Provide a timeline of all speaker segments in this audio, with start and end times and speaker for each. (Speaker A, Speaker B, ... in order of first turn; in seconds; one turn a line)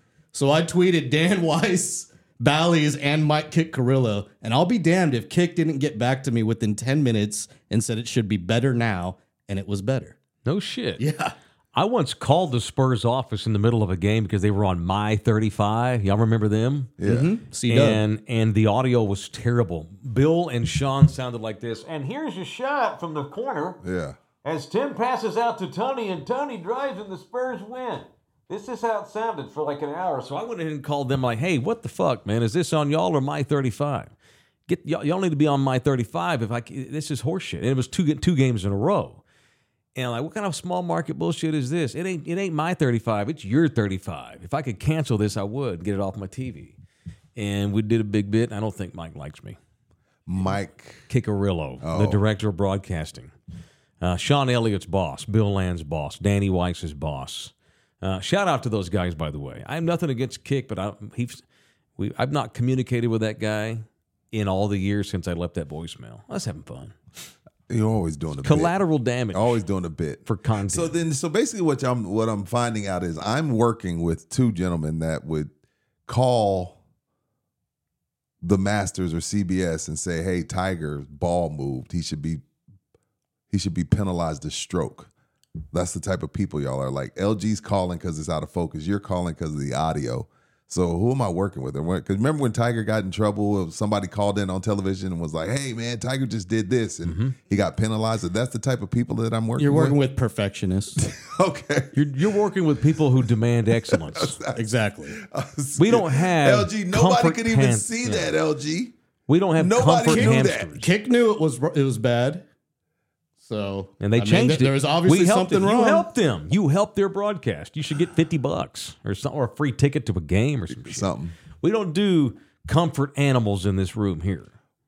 Speaker A: 0.3-10.2
Speaker B: 10.4-11.0
Speaker A: 11.0-11.3
Speaker B: 11.7-17.0
Speaker C: 17.0-17.3
Speaker A: 17.0-18.0
Speaker B: 17.7-23.8
Speaker C: 23.8-24.2
Speaker B: 24.4-34.1
Speaker B: 34.7-39.2
Speaker B: 40.0-46.8
Speaker B: 47.4-49.6
Speaker C: 50.3-51.1
Speaker B: 51.1-53.3
Speaker C: 51.8-52.2
Speaker B: 54.0-61.4
Speaker B: 62.0-67.0
Speaker C: 67.7-68.7
Speaker B: 68.4-69.6
Speaker C: 69.3-75.5
Speaker B: 70.2-70.9
Speaker C: 76.1-76.8
Speaker C: 78.4-82.4
Speaker C: 83.5-85.1
Speaker C: 85.7-100.0
Speaker B: 97.0-97.4
Speaker A: 99.6-101.0
Speaker C: 101.0-102.3
Speaker B: 101.9-104.4
Speaker C: 103.9-108.9
Speaker A: 104.5-105.2
Speaker B: 105.8-108.3
Speaker B: 109.3-110.9
Speaker C: 109.6-110.7
Speaker A: 110.1-112.5
Speaker A: 113.4-116.1
Speaker B: 114.0-124.5
Speaker C: 120.7-121.3